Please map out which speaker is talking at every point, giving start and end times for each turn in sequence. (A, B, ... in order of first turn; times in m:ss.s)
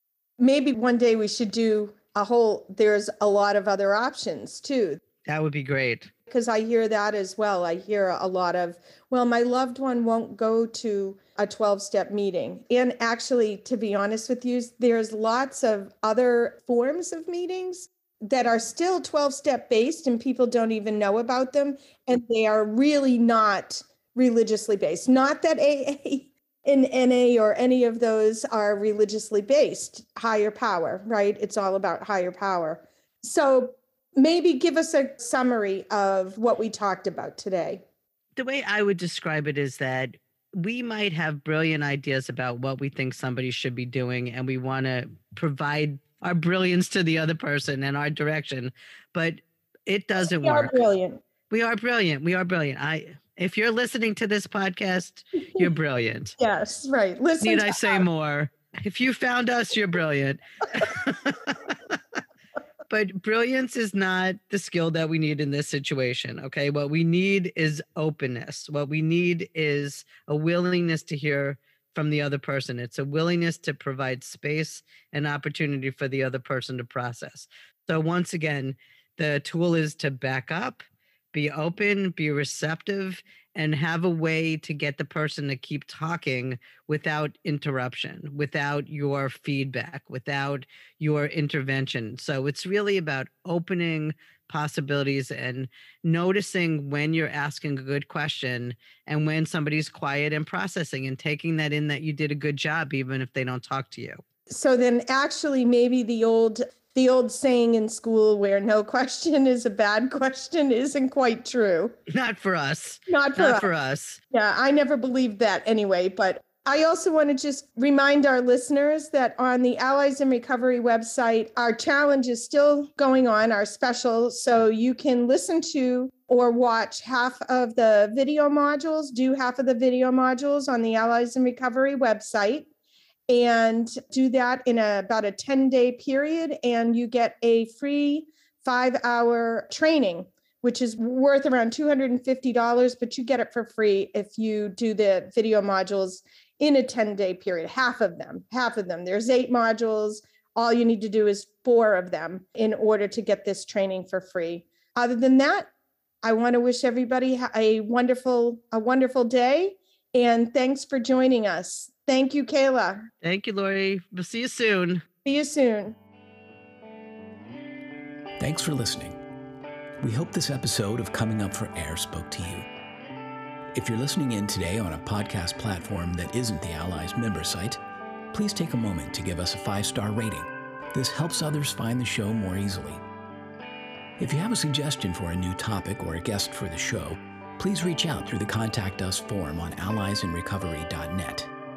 0:00.4-0:05.0 A
0:05.2-0:06.1 B
0:06.3-0:37.8 A
0:38.4-0:50.8 B
0:50.2-0:51.2 A
0:51.5-0:56.4 B
0:56.4-0:58.0 A
0:57.4-1:01.7 B
1:02.9-1:44.2 B
1:44.5-1:51.9 A
1:52.1-1:54.2 B
1:53.1-1:53.7 A
1:54.3-2:12.7 A
2:13.3-2:35.7 A
2:36.2-2:43.1 A
2:43.2-2:45.0 B
2:45.2-2:46.0 A
2:48.4-2:49.1 C
2:50.0-2:52.6 C
2:53.7-2:57.8 C
2:58.3-3:03.0 C
3:04.2-3:11.5 C